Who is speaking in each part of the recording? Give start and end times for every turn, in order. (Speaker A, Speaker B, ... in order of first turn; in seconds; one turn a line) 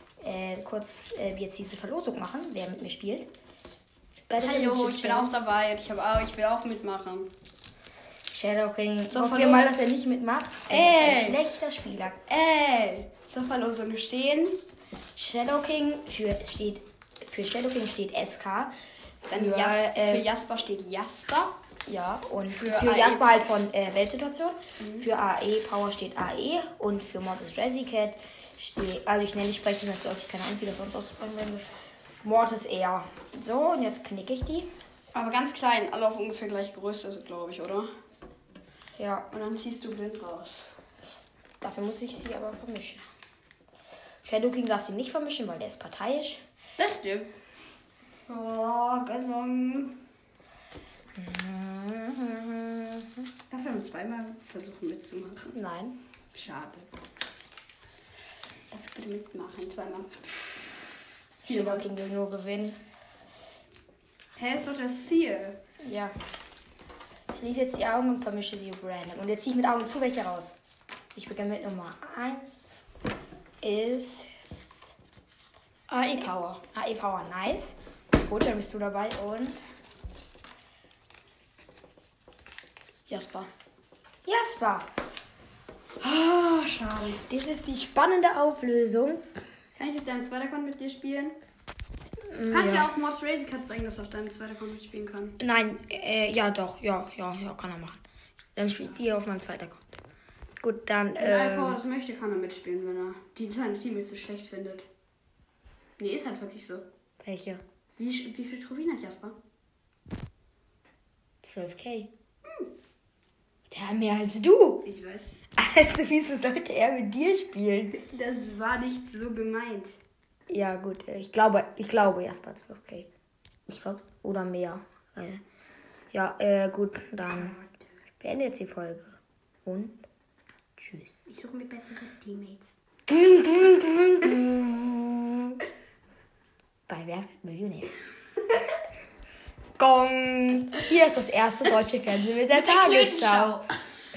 Speaker A: 0.2-3.3
Speaker A: 4.3-5.3
Speaker B: 4.4-7.3
Speaker A: 8.3-12.2
Speaker B: 9.1-9.7
Speaker B: 10.7-11.4
Speaker B: 12.3-14.6
Speaker A: 15.2-20.2
Speaker B: 19.3-21.5
Speaker A: 21.9-31.6
Speaker B: 22.6-23.2
Speaker B: 24.8-25.1
Speaker A: 32.2-34.7
Speaker B: 35.1-37.9
Speaker A: 39.0-39.3
Speaker B: 39.3-40.8
Speaker A: 41.6-43.1
Speaker A: 44.2-46.4
Speaker B: 46.8-47.3
Speaker B: 48.3-50.0
Speaker A: 51.2-53.2
Speaker B: 53.5-55.5
Speaker A: 55.5-56.0
Speaker B: 56.3-56.9
Speaker B: 58.7-60.3
Speaker B: 61.5-61.9
Speaker A: 61.5-62.8
Speaker B: 64.4-65.6
Speaker A: 65.8-66.1
Speaker A: 67.3-70.5
Speaker A: 71.1-72.8
Speaker A: 73.6-74.9
Speaker A: 75.9-79.6
Speaker B: 83.1-83.5
Speaker A: 84.2-84.9
Speaker B: 86.0-87.2
Speaker A: 87.3-89.2
Speaker B: 89.8-91.4
Speaker A: 92.3-92.9
Speaker B: 92.5-95.4
Speaker A: 95.4-98.0
Speaker A: 98.6-100.0
Speaker A: 100.6-101.8
Speaker B: 101.2-104.9
Speaker B: 106.0-106.8
Speaker A: 107.2-107.6
Speaker B: 108.0-109.3
Speaker A: 111.4-112.1
Speaker A: 113.7-114.8
Speaker B: 114.8-115.4
Speaker A: 115.6-118.0
Speaker B: 118.0-120.0
Speaker A: 120.5-123.1
Speaker A: 123.7-125.4
Speaker A: 126.1-127.6
Speaker B: 127.3-127.8
Speaker A: 128.2-130.0
Speaker A: 130.8-131.2
Speaker B: 131.3-132.7
Speaker A: 133.1-135.6
Speaker A: 136.9-137.9
Speaker A: 139.8-143.7
Speaker B: 142.5-143.7